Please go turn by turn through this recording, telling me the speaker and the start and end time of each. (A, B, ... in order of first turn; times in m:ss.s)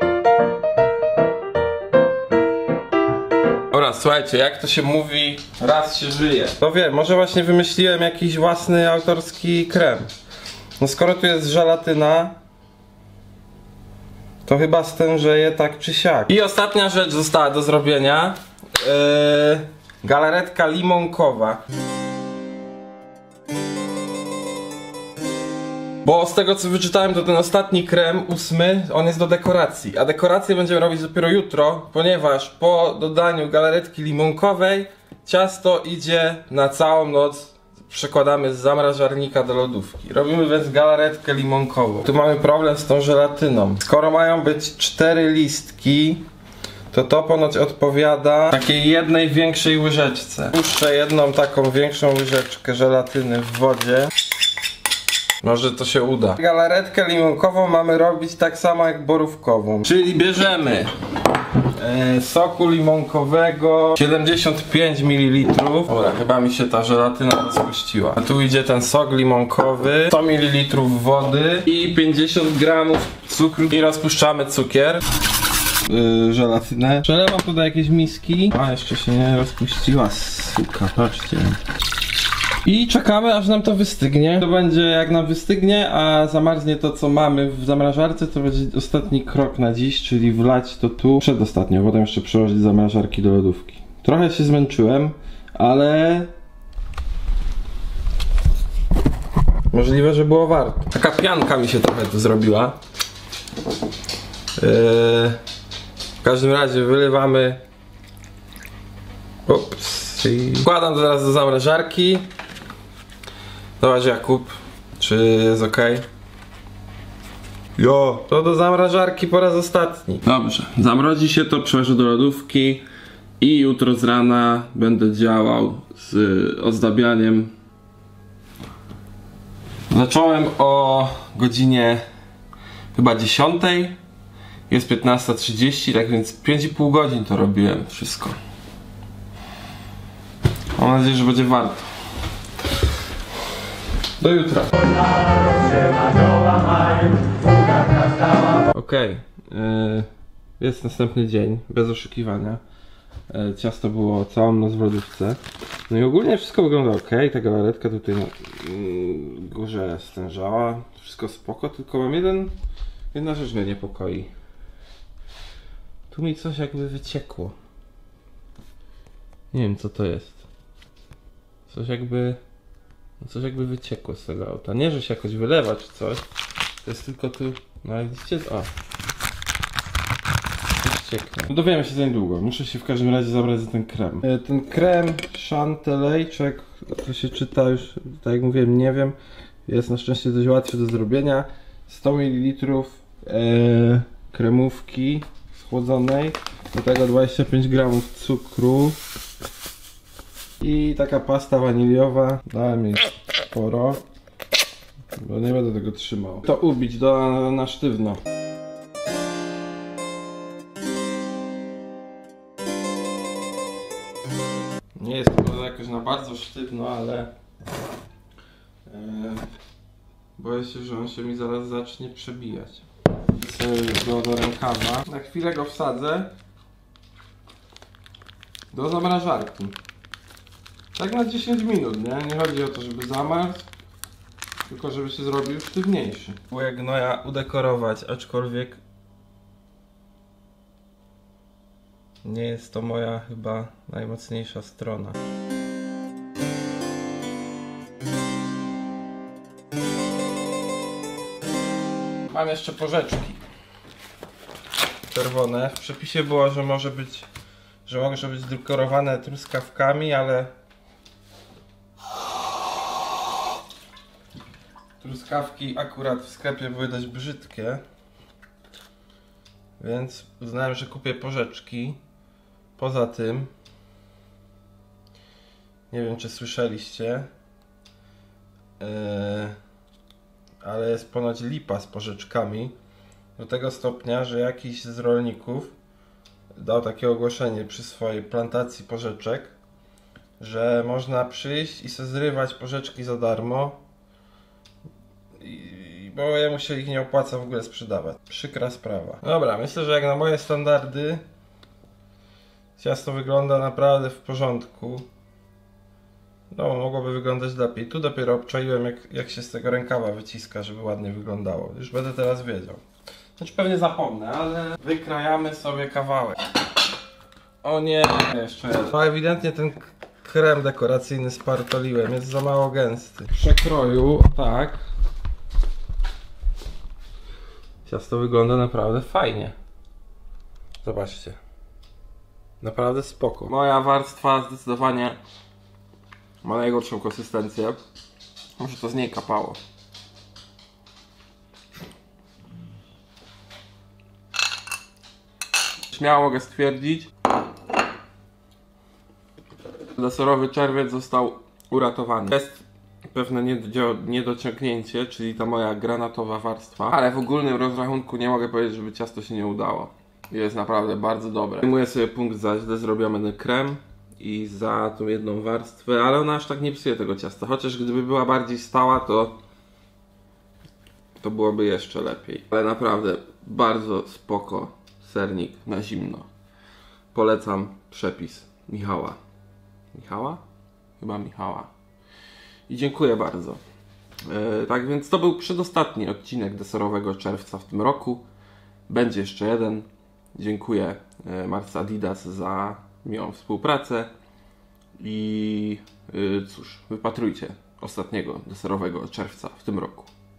0:03.7-0:10.1 A
0:10.8-0:12.4 A
0:14.5-0:21.6 A
0:26.0-0:46.2 A
0:46.9-0:54.1 A
0:55.4-1:00.9 A
1:01.8-1:15.0 A
1:15.9-1:21.6 A
1:22.6-1:36.3 A
1:39.7-1:42.8 A
1:44.6-1:45.4 A
1:46.2-1:47.6 A
1:49.5-1:52.3 A
1:53.8-1:56.0 A
1:57.8-2:02.8 A
2:03.4-2:07.5 A
2:09.9-2:12.0 A
2:12.9-2:14.0 A
2:14.7-2:18.4 A
2:20.8-2:21.9 A
2:24.2-2:24.8 A
2:28.7-2:30.1 A
2:30.6-2:32.6 A
2:33.3-2:42.6 A
2:43.1-2:44.3 A
2:46.1-2:47.6 A
2:49.5-2:50.5 A
2:51.7-2:52.4 A
2:53.2-2:56.2 A
2:56.8-2:58.7 A
3:00.8-3:19.0 A
3:20.6-3:24.0 A
3:25.1-3:28.2 A
3:35.0-3:37.3 A
3:38.9-3:39.4 A
3:40.4-3:46.3 A
3:48.7-3:49.8 A
3:50.9-3:53.7 A
3:54.7-3:58.8 A
4:02.2-4:05.2 A
4:12.3-4:13.4 A
4:15.1-4:17.3 A
4:17.9-4:20.5 A
4:25.0-4:27.8 A
4:29.8-4:32.0 A
4:32.8-4:33.5 A
4:35.9-4:37.3 A
4:38.8-4:39.6 A
4:40.6-4:42.8 A
4:43.4-4:45.7 A
4:46.6-4:49.5 A
4:50.4-4:53.8 A
4:55.4-5:01.2 A
5:02.8-5:05.1 A
5:06.5-5:12.8 A
5:13.4-5:16.4 A
5:17.6-5:24.8 A
5:27.9-5:29.6 A
5:30.8-5:31.4 A
5:32.6-5:35.2 A
5:36.4-5:37.8 A
5:38.6-5:39.6 A
5:45.9-5:47.1 A
5:50.0-6:09.4 A
6:11.2-6:16.3 A
6:17.1-6:19.2 A
6:19.9-6:20.4 A
6:21.0-6:21.7 A
6:22.7-6:23.6 A
6:24.3-6:28.2 A
6:28.9-6:34.1 A
6:35.0-6:40.1 A